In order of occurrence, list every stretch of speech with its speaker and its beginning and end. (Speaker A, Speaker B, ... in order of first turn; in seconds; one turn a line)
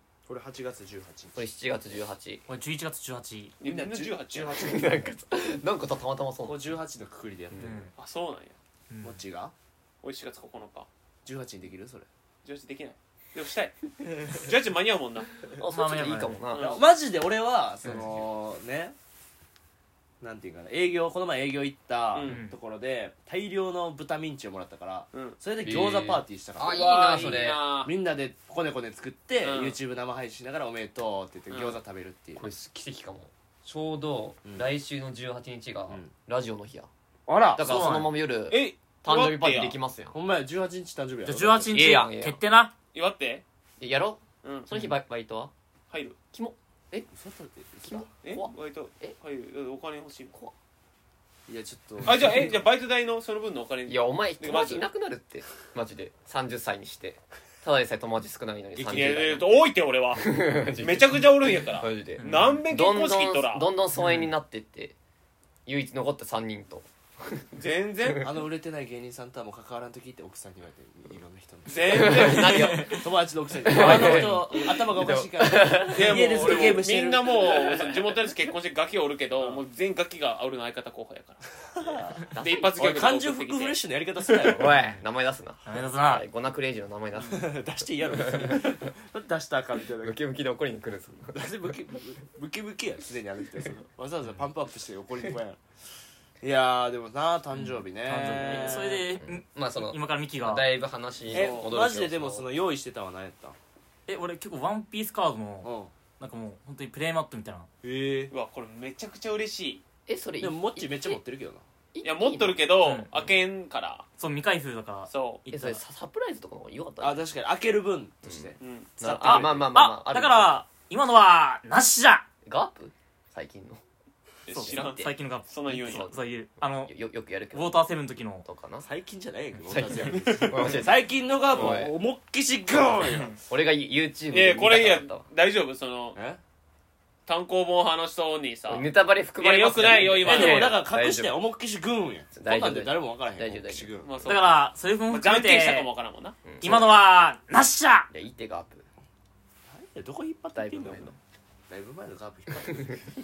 Speaker A: 0.3-1.4
Speaker B: 1.3-2.5
Speaker C: 2.5-3.5
Speaker D: 3.6-4.6
Speaker A: 3.6-5.0
Speaker B: 4.5-6.7
Speaker A: 6.4-7.8
Speaker B: 7.5-7.8
Speaker C: 7.6-7.9
Speaker D: 8.0-8.6
Speaker C: 8.9-9.2
Speaker A: 9.0-9.5
Speaker D: 10.0-10.9
Speaker A: 11.2-12.1
Speaker D: 12.4-15.3
Speaker B: 15.5-16.8
Speaker C: 15.7-16.4
Speaker D: 16.5-16.9
Speaker A: 16.6-18.9
Speaker A: 20.2-32.5
Speaker D: 22.1-22.4
Speaker C: 22.2-22.6
Speaker B: 25.6-27.6
Speaker D: 26.6-27.9
Speaker D: 29.4-29.8
Speaker D: 31.5-31.8
Speaker B: 32.4-36.9
Speaker A: 37.3-37.7
Speaker B: 37.5-40.1
Speaker C: 37.6-38.2
Speaker D: 38.5-39.8
Speaker A: 40.1-41.8
Speaker C: 41.2-42.7
Speaker B: 41.7-42.4
Speaker D: 42.9-43.4
Speaker B: 43.8-45.5
Speaker D: 44.4-44.7
Speaker D: 45.9-46.2
Speaker B: 46.3-47.1
Speaker A: 47.1-48.1
Speaker B: 47.9-49.1
Speaker D: 48.2-50.3
Speaker A: 51.5-52.5
Speaker D: 52.0-54.9
Speaker B: 53.9-59.6
Speaker A: 58.8-59.4
Speaker D: 58.9-60.3
Speaker B: 60.1-65.0
Speaker D: 60.8-63.7
Speaker C: 62.2-62.5
Speaker C: 64.0-64.3
Speaker B: 65.7-68.2
Speaker D: 67.5-68.2
Speaker A: 68.2-77.9
Speaker D: 71.7-72.9
Speaker B: 71.8-73.0
Speaker C: 72.3-72.9
Speaker B: 73.6-76.4
Speaker C: 73.7-74.4
Speaker D: 75.9-83.8
Speaker A: 81.8-82.2
Speaker B: 82.3-82.8
Speaker A: 82.8-84.7
Speaker B: 84.5-88.8
Speaker C: 85.6-86.2
Speaker A: 87.2-90.2
Speaker B: 90.0-91.7
Speaker A: 91.3-95.6
Speaker A: 96.4-99.1
Speaker C: 97.5-100.7
Speaker B: 99.2-102.5
Speaker A: 101.3-103.5
Speaker D: 101.3-101.7
Speaker C: 104.1-107.7
Speaker A: 105.6-105.9
Speaker A: 107.8-108.3
Speaker D: 108.3-109.8
Speaker B: 110.1-111.2
Speaker A: 110.4-111.6
Speaker B: 111.9-112.6
Speaker D: 112.0-114.0
Speaker C: 112.8-113.3
Speaker C: 114.2-115.8
Speaker D: 115.1-115.4
Speaker B: 115.5-117.2
Speaker A: 117.0-119.7
Speaker B: 118.2-120.6
Speaker D: 118.6-118.9
Speaker C: 119.2-122.2
Speaker B: 122.5-123.8
Speaker D: 124.5-126.1
Speaker C: 124.5-126.9
Speaker B: 124.6-125.1
Speaker B: 125.7-127.8
Speaker C: 127.5-128.4
Speaker B: 128.4-128.9
Speaker A: 128.8-133.4
Speaker B: 129.7-131.9
Speaker D: 130.1-130.6
Speaker C: 133.1-133.4
Speaker B: 133.5-135.2
Speaker D: 134.3-136.2
Speaker A: 136.1-136.4
Speaker D: 137.2-138.9
Speaker B: 138.7-141.4
Speaker D: 139.4-140.8
Speaker A: 139.9-144.3
Speaker B: 142.3-144.3
Speaker D: 144.0-146.4
Speaker C: 144.2-145.9
Speaker B: 146.4-146.9
Speaker C: 146.6-148.1
Speaker B: 148.1-148.9
Speaker A: 149.7-151.2
Speaker B: 150.5-151.1
Speaker A: 151.7-153.1
Speaker B: 152.7-153.0